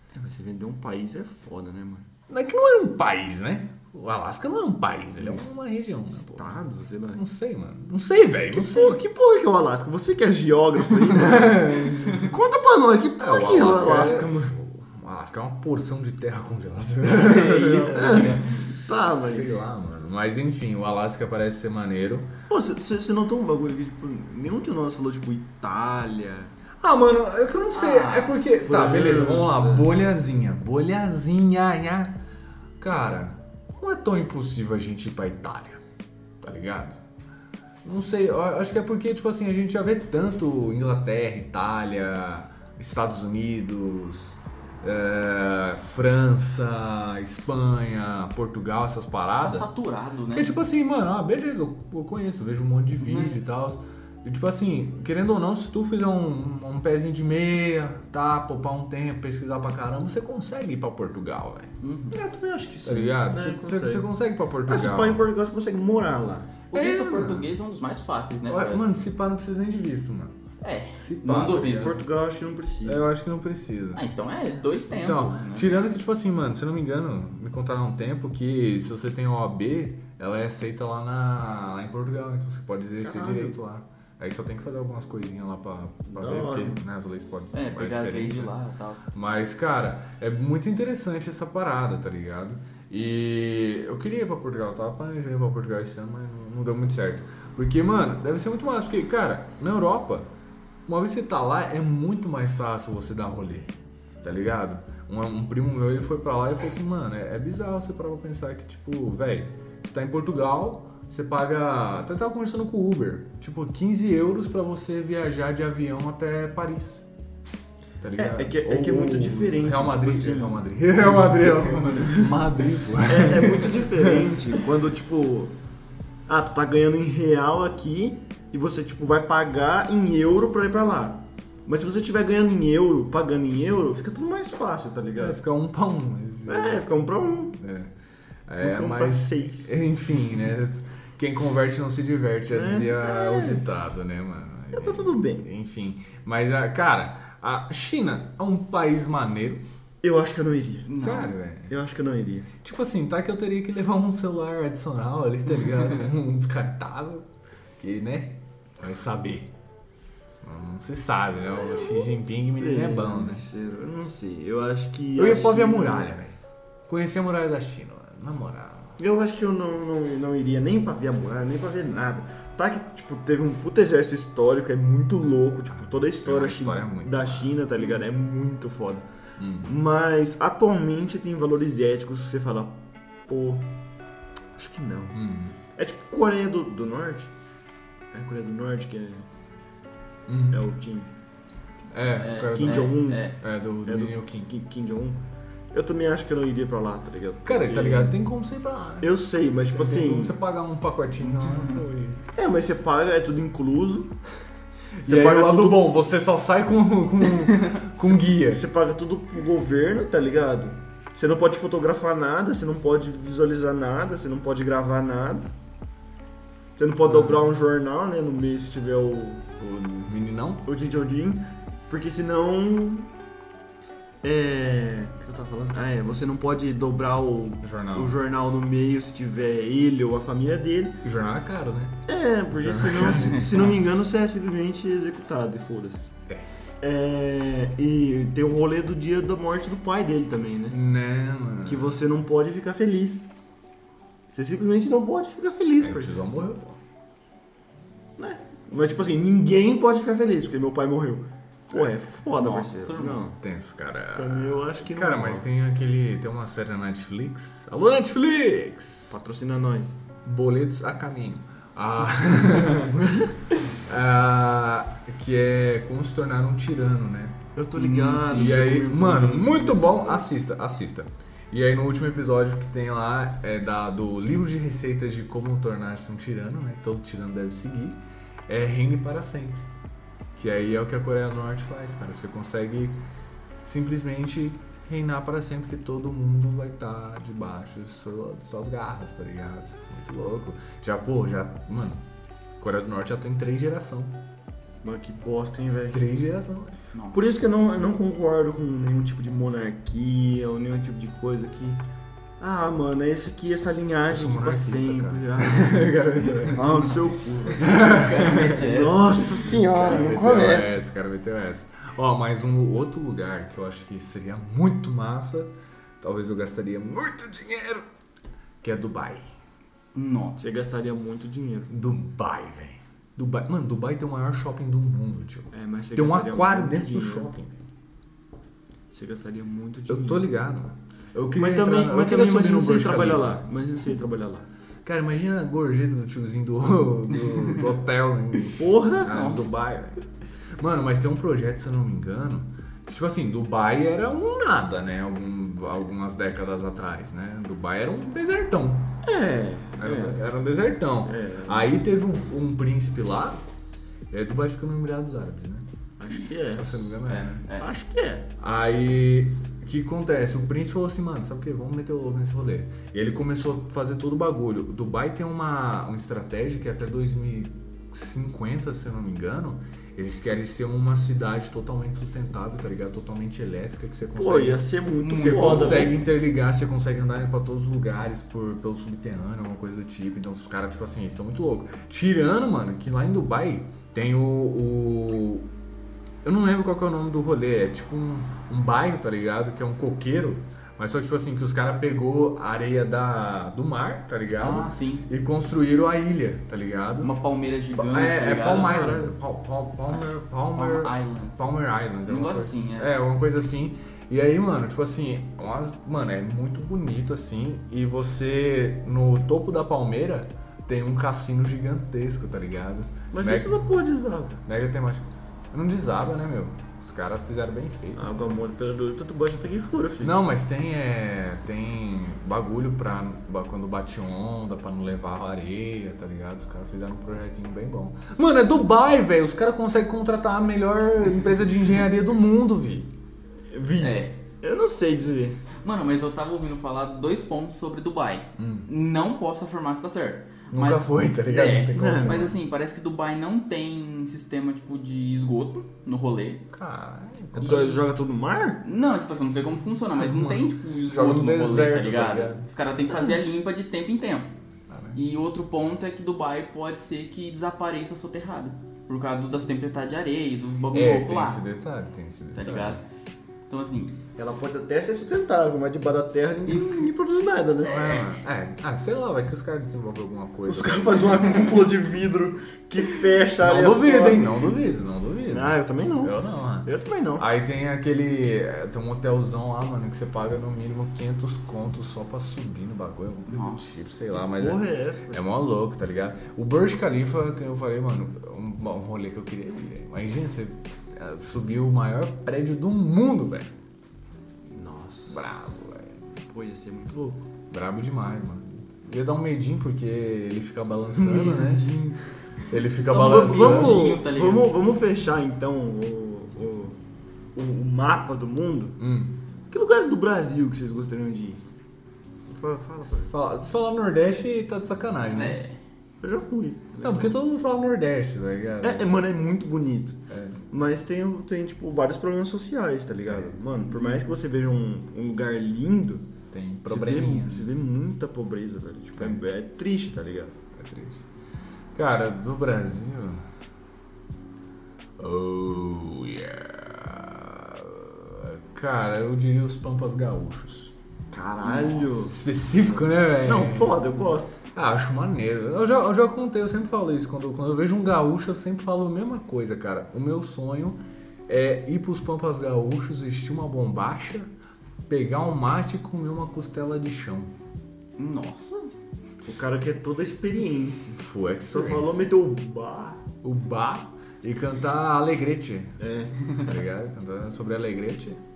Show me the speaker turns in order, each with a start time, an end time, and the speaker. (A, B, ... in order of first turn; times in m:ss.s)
0:00.1-0:02.1 A
0:02.3-0:09.0 B
0:05.2-0:05.5 A
0:06.1-0:07.2 A
0:08.5-0:14.6 A
0:11.1-0:12.4 B
0:13.2-0:18.4 B
0:17.1-0:18.5 C
0:17.9-0:19.6 A
0:19.1-0:22.3 B
0:22.5-0:26.6 A
0:26.8-0:32.2 B
0:27.7-0:28.4 C
0:28.5-0:29.9 A
0:32.8-0:35.8 B
0:36.4-0:37.0 B
0:37.8-0:49.7 B
0:49.4-0:50.6 C
0:50.3-1:01.7 B
0:53.0-0:53.3 C
1:01.8-1:02.2 C
1:02.1-1:04.1 A
1:02.8-1:05.2 B
1:04.7-1:06.5 A
1:06.7-1:08.9 C
1:06.7-1:07.5 B
1:08.5-1:10.4 B
1:10.6-1:12.0 C
1:11.0-1:11.9 B
1:11.5-1:13.1 A
1:12.8-1:14.0 B
1:14.0-1:15.9 C
1:15.0-1:28.5 B
1:23.0-1:23.6 A
1:26.1-1:26.8 A
1:27.5-1:29.1 C
1:29.1-1:40.3 B
1:40.9-1:43.7 B
1:44.2-1:57.1 B
1:58.0-2:04.3 B
1:58.2-2:00.6 A
2:01.9-2:02.3 A
2:03.0-2:05.6 A
2:06.3-2:15.4 A
2:15.2-2:17.9 B
2:16.5-2:17.6 A
2:18.5-2:29.6 B
2:18.6-2:19.8 A
2:22.5-2:23.7 A
2:24.7-2:25.5 A
2:30.0-2:30.9 A
2:30.9-2:31.4 C
2:31.0-2:31.7 B
2:31.7-2:32.5 A
2:32.6-2:37.3 B
2:37.8-2:39.5 B
2:40.4-2:43.4 B
2:41.5-2:46.1 A
2:45.2-2:49.0 B
2:49.0-2:59.1 A
2:55.8-2:57.6 B
2:59.4-2:59.8 B
2:59.6-3:03.7 A
3:04.6-3:05.2 A
3:05.1-3:05.6 B
3:05.7-3:07.3 A
3:08.1-3:09.3 A
3:10.3-3:10.6 B
3:10.5-3:11.1 A
3:11.9-3:14.5 B
3:12.2-3:13.4 C
3:12.5-3:13.3 A
3:13.8-3:18.2 A
3:17.4-3:19.2 B
3:19.0-3:20.4 A
3:19.7-3:22.2 B
3:21.3-3:21.8 C
3:22.4-3:24.1 A
3:25.0-3:28.6 B
3:25.0-3:25.9 A
3:28.0-3:35.5 A
3:36.8-3:39.5 A
3:37.1-3:37.4 B
3:39.6-3:40.7 B
3:40.6-3:43.1 A
3:44.2-3:51.0 A
3:47.6-3:48.1 B
3:51.0-3:53.7 B
3:52.1-3:56.1 A
3:56.8-4:00.8 A
4:00.7-4:02.0 B
4:01.6-4:03.3 A
4:04.3-4:06.2 A
4:05.8-4:06.8 B
4:08.2-4:13.4 A
4:12.4-4:13.3 C
4:13.4-4:19.2 B
4:14.1-4:15.5 A
4:19.1-4:20.0 A
4:20.2-4:23.1 B
4:22.4-4:23.4 A
4:23.7-4:27.4 B
4:27.6-4:30.4 A
4:27.8-4:28.6 C
4:28.3-4:39.7 B
4:40.4-4:43.0 B
4:43.6-4:52.0 B
4:52.6-4:54.2 B
4:54.8-4:56.0 A
4:55.9-4:56.8 B
4:56.9-4:57.4 C
4:57.1-5:01.8 A
5:02.4-5:10.8 A
5:04.1-5:17.9 B
5:07.7-5:09.2 C
5:18.6-5:19.3 B
5:20.0-5:20.4 C
5:20.4-5:21.7 A
5:21.7-5:27.6 B
5:25.5-5:27.3 A
5:28.9-5:30.3 A
5:29.9-5:33.4 B
5:31.3-5:34.5 A
5:34.8-5:40.0 B
5:38.6-5:39.2 A
5:39.1-5:39.5 C
5:40.6-5:49.0 B
5:49.0-5:50.2 A
5:49.8-5:53.4 B
5:51.0-5:51.8 A
5:54.1-5:55.7 B
5:56.0-5:56.8 A
5:56.5-5:57.4 B
5:57.1-5:57.7 C
5:57.6-5:58.3 A
5:58.4-6:25.5 B
6:14.2-6:16.0 A
6:15.0-6:16.0 C
6:26.2-6:37.1 B
6:34.4-6:35.1 C
6:37.0-6:39.2 C
6:37.7-6:53.7 B
6:39.9-6:41.5 C
6:42.0-6:43.0 C
6:53.1-6:54.4 A
6:54.4-6:58.1 B
6:58.0-7:00.2 A
7:00.0-7:12.9 B
7:13.5-7:15.4 A
7:13.8-7:14.2 C
7:15.6-7:26.4 C
7:18.4-7:18.7 B
7:20.5-7:22.4 B
7:21.7-7:22.4 A
7:26.5-7:27.6 B
7:27.4-7:28.6 A
7:27.4-7:27.8 C
7:28.6-7:34.3 C
7:29.9-7:32.5 B
7:32.9-7:33.2 A
7:34.7-7:35.0 B
7:35.0-7:41.4 C
7:40.7-7:42.8 B
7:42.4-7:42.8 C
7:43.5-7:44.0 C
7:44.2-7:48.0 A
7:47.6-7:51.3 B
7:50.5-7:54.6 A
7:53.4-8:13.5 B
7:55.3-7:57.2 A
8:03.3-8:03.9 C
8:04.4-8:05.3 A
8:14.5-8:15.7 A
8:15.1-8:16.0 B
8:16.2-8:17.2 A
8:17.5-8:21.8 B
8:21.0-8:22.0 A
8:22.5-8:23.9 B
8:22.7-8:26.8 A
8:22.8-8:24.5 C
8:27.4-8:28.8 A
8:28.8-8:29.2 B
8:29.5-8:31.4 A
8:32.3-8:33.1 A
8:33.1-8:35.4 B
8:35.1-8:35.6 C
8:36.0-8:37.2 A
8:36.8-8:38.9 B
8:38.6-8:46.1 A
8:40.1-8:40.4 B
8:43.1-8:43.4 B
8:46.3-8:47.6 B
8:46.6-8:50.4 A
8:50.6-8:51.0 B
8:51.7-8:53.2 B
8:55.0-9:00.7 B
9:01.1-9:04.4 A
9:01.4-9:01.9 C
9:02.0-9:03.8 B
9:04.5-9:14.3 B
9:14.9-9:17.3 B
9:18.0-9:18.7 C
9:19.2-9:23.0 A
9:21.0-9:22.0 B
9:23.2-9:25.8 B
9:25.8-9:26.2 A
9:26.3-9:28.2 B